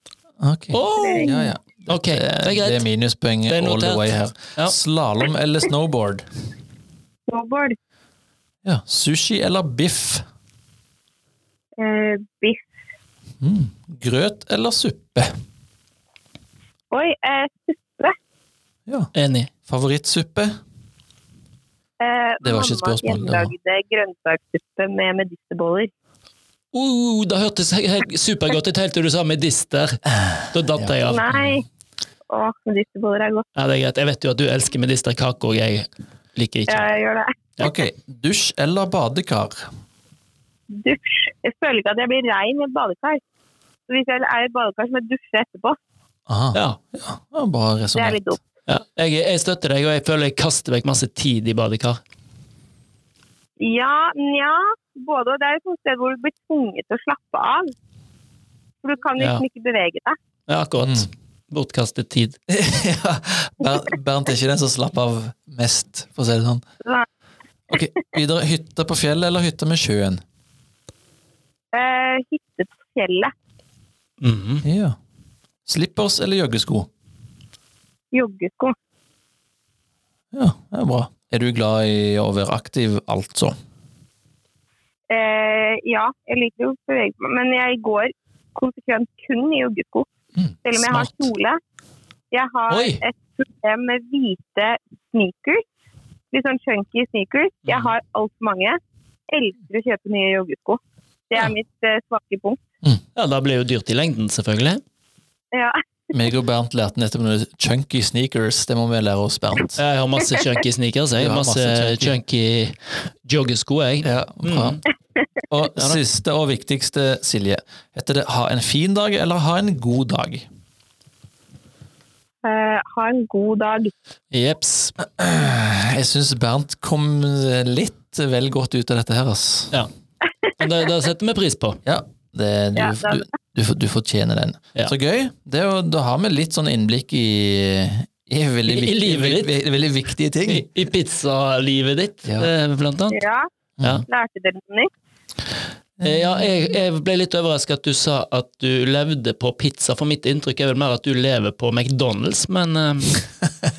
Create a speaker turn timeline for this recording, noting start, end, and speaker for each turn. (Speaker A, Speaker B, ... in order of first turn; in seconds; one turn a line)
Speaker A: 0.4-6.2
Speaker B: 0.7-1.3
Speaker C: 0.9-1.5
Speaker B: 1.9-2.8
Speaker B: 3.5-4.8
Speaker C: 7.3-7.8
Speaker A: 8.6-10.2
Speaker C: 11.8-12.6
Speaker A: 13.4-15.3
Speaker C: 16.9-18.1
Speaker B: 19.1-19.5
Speaker A: 19.7-20.5
Speaker C: 22.0-25.9
Speaker A: 22.4-23.5
Speaker B: 26.7-31.3
Speaker A: 30.2-31.6
Speaker C: 31.0-31.6
Speaker C: 32.3-33.5
Speaker B: 33.5-36.9
Speaker C: 36.7-37.7
Speaker A: 37.6-39.7
Speaker C: 40.7-43.2
Speaker C: 43.9-45.8
Speaker A: 46.3-48.2
Speaker C: 47.9-48.4
Speaker B: 48.7-52.0
Speaker C: 53.6-57.7
Speaker C: 58.8-60.2
Speaker B: 59.2-59.4
Speaker B: 60.5-62.4
Speaker A: 60.8-61.1
Speaker A: 62.5-66.6
Speaker A: 67.7-70.2
Speaker C: 71.7-73.3
Speaker B: 74.2-74.6
Speaker A: 74.6-75.0
Speaker A: 75.7-76.9
Speaker C: 78.1-78.7
Speaker A: 80.3-83.5
Speaker C: 85.1-90.1
Speaker C: 90.6-91.6
Speaker B: 90.9-91.1
Speaker C: 92.3-95.6
Speaker B: 92.7-93.0
Speaker C: 96.3-100.8
Speaker C: 101.3-102.6
Speaker B: 103.2-104.8
Speaker C: 105.5-105.8
Speaker A: 106.1-109.8
Speaker B: 109.8-114.8
Speaker C: 110.2-110.5
Speaker A: 111.2-112.2
Speaker A: 114.0-114.8
Speaker A: 115.5-120.5
Speaker C: 122.4-123.9
Speaker B: 124.3-125.0
Speaker A: 125.0-129.8
Speaker C: 130.5-130.9
Speaker B: 130.6-131.8
Speaker A: 131.8-140.7
Speaker C: 132.8-133.2
Speaker B: 138.7-139.5
Speaker B: 140.4-143.2
Speaker A: 142.2-142.5
Speaker C: 143.1-143.5
Speaker A: 143.8-144.1
Speaker C: 144.1-144.9
Speaker A: 146.0-146.4
Speaker B: 146.0-153.2